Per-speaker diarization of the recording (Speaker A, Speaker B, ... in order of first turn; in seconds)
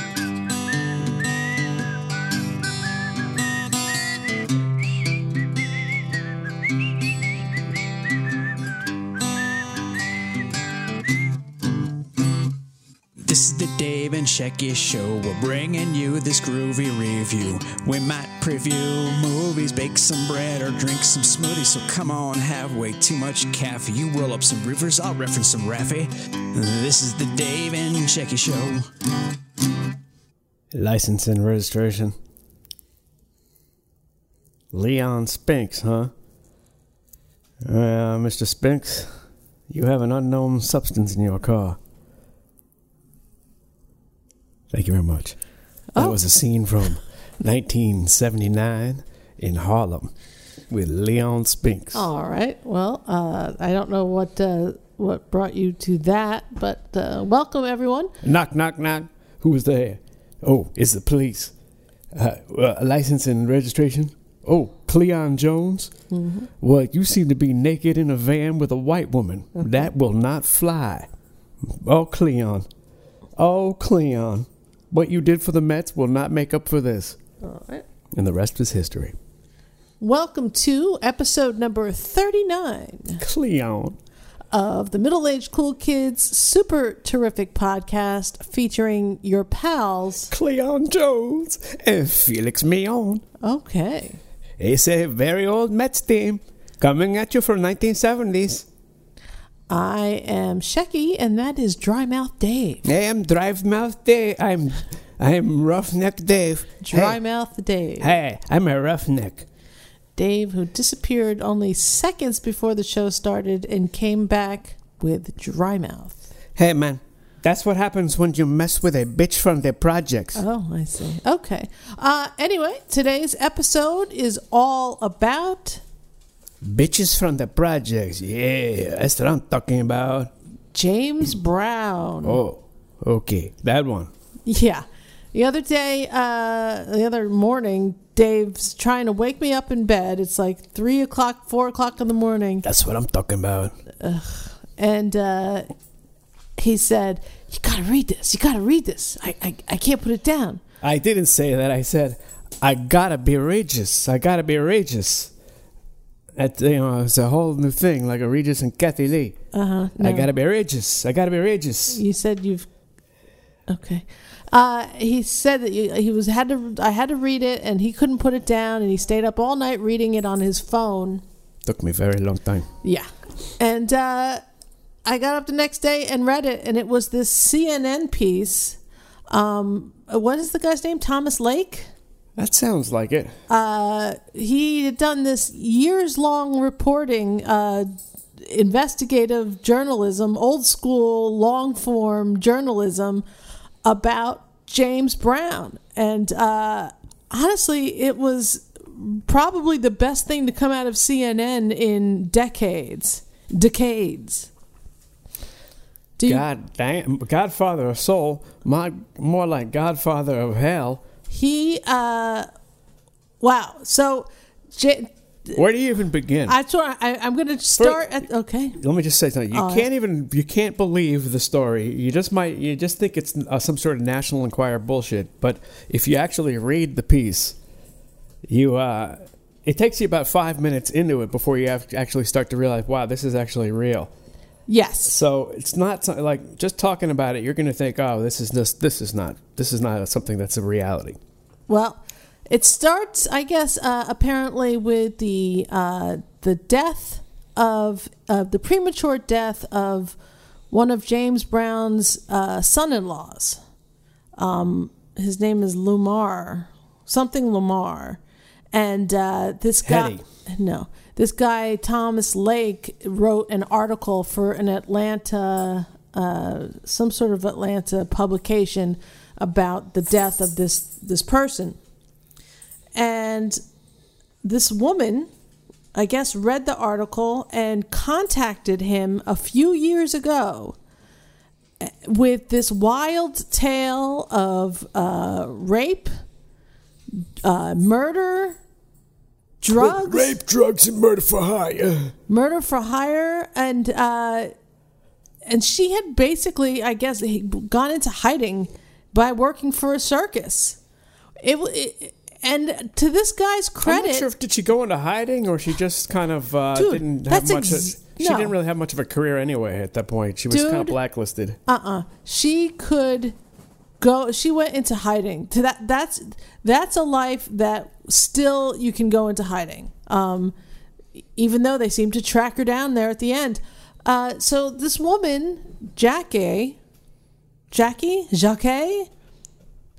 Speaker A: 13.2-28.9
Speaker B: 30.7-32.2, 34.7-36.1, 37.6-39.2, 39.7-41.8, 44.7-45.4, 46.0-50.1, 50.7-52.1, 58.2-61.5, 62.1-65.9, 66.6-71.1, 71.6-72.7, 73.4-77.2, 78.1-79.2, 83.2-84.0, 90.3-93.2, 94.6-98.7, 102.8-107.2, 108.0-109.5, 116.5-120.4, 126.6-130.3, 132.2-134.1, 142.6-143.8, 150.8-155.3, 156.4-159.4, 160.0-162.0, 171.7-172.7, 182.4-183.3, 206.3-211.0, 215.6-216.6, 217.8-218.2, 218.8-227.6, 228.4-234.1, 235.1-241.2, 259.9-260.2, 289.7-292.1, 303.8-311.6
Speaker C: 51.9-58.1, 66.1-66.5, 77.4-77.8, 80.0-83.2, 84.5-90.3, 93.4-94.2, 99.7-102.8, 106.8-108.2, 110.2-116.2, 120.3-125.8, 130.7-132.4, 134.5-142.7, 144.0-145.7, 146.6-150.6, 159.5-160.3, 161.9-162.7, 163.7-171.2, 172.8-174.4, 175.1-178.8, 179.3-181.9, 183.5-193.2, 193.8-204.5, 206.2-206.4, 211.3-212.5, 213.4-215.6, 216.5-218.8, 219.5-219.9, 234.7-235.1, 241.7-250.2, 250.7-253.6, 254.4-258.2, 258.7-271.8, 273.0-273.6, 274.4-275.3, 275.9-280.8, 281.8-286.1, 287.1-288.6, 289.6-290.4, 292.3-294.5, 295.5-300.8, 301.4-304.3, 306.8-308.5, 310.5-311.0, 311.7-313.4, 314.0-320.6, 321.4-326.8, 327.7-329.1